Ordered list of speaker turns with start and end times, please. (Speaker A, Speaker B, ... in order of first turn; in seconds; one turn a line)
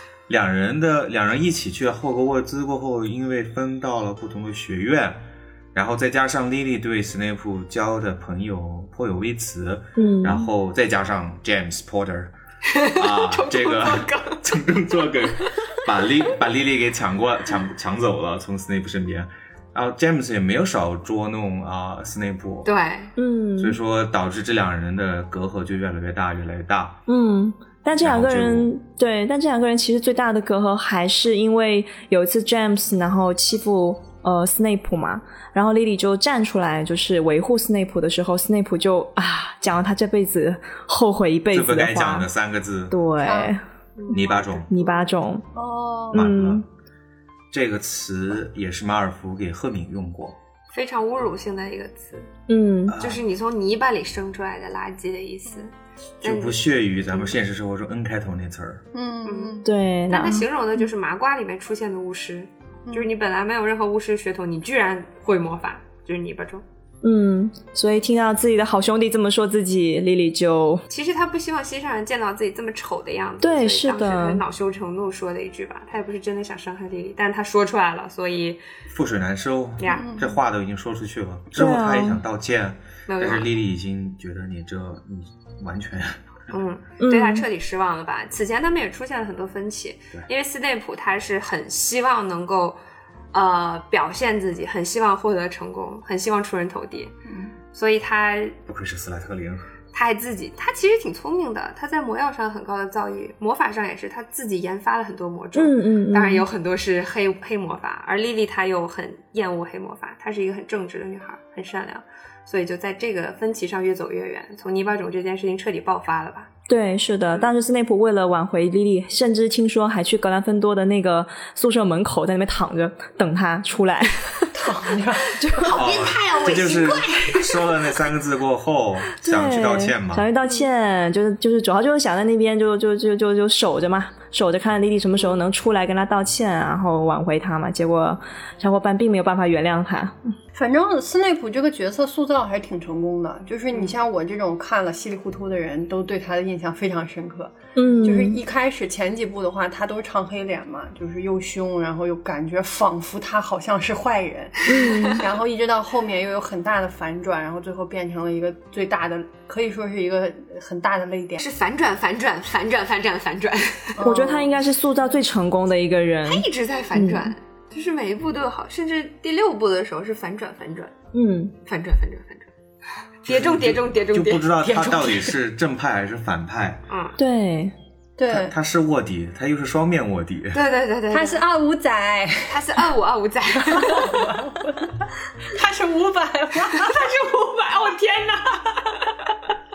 Speaker A: 0.3-5.2
Speaker A: 5.8-12.3
Speaker B: 10.0-10.5
Speaker C: 12.7-14.4
Speaker A: 12.9-22.7
Speaker C: 22.6-23.1
Speaker B: 23.2-23.8
Speaker A: 23.6-27.0
Speaker B: 27.1-42.3
Speaker A: 28.0-28.7
Speaker A: 41.5-43.0
Speaker B: 42.9-43.6
Speaker D: 43.2-43.6
Speaker C: 44.0-44.6
Speaker A: 44.1-44.7
Speaker B: 44.7-45.5
Speaker D: 45.5-46.3
Speaker B: 46.1-46.6
Speaker A: 46.1-46.6
Speaker A: 47.5-50.4
Speaker C: 50.7-52.3
Speaker B: 52.5-53.0
Speaker A: 52.9-53.2
Speaker C: 53.0-56.6
Speaker A: 56.2-58.8
Speaker D: 58.9-59.7
Speaker C: 59.2-66.6
Speaker B: 59.6-60.5
Speaker B: 67.0-70.8
Speaker C: 70.9-78.6
Speaker B: 73.4-74.4
Speaker A: 78.9-86.2
Speaker C: 79.8-80.1
Speaker D: 79.9-80.4
Speaker B: 81.6-82.2
Speaker C: 83.1-83.5
Speaker C: 86.5-92.8
Speaker B: 87.0-87.5
Speaker C: 93.3-97.1
Speaker D: 97.3-97.5
Speaker C: 97.7-98.6
Speaker A: 98.7-99.7
Speaker C: 99.9-116.5
Speaker B: 105.5-106.5
Speaker B: 116.7-124.5
Speaker D: 124.5-125.4
Speaker B: 125.4-125.8
Speaker C: 125.5-127.5
Speaker A: 125.7-130.3
Speaker B: 129.2-140.3
Speaker D: 140.5-161.4
Speaker B: 147.8-148.4
Speaker B: 154.7-155.3
Speaker C: 154.8-155.1
Speaker C: 161.4-164.0
Speaker D: 164.0-164.5
Speaker B: 164.0-167.3
Speaker C: 166.3-170.9
Speaker B: 171.1-171.5
Speaker C: 171.7-172.5
Speaker C: 173.2-174.5
Speaker A: 173.2-176.8
Speaker D: 174.6-175.4
Speaker C: 176.9-177.2
Speaker B: 177.2-177.7
Speaker D: 178.2-178.6
Speaker A: 178.3-180.6
Speaker C: 180.5-181.4
Speaker D: 181.1-182.6
Speaker C: 182.5-184.2
Speaker D: 183.6-187.1
Speaker C: 186.7-188.9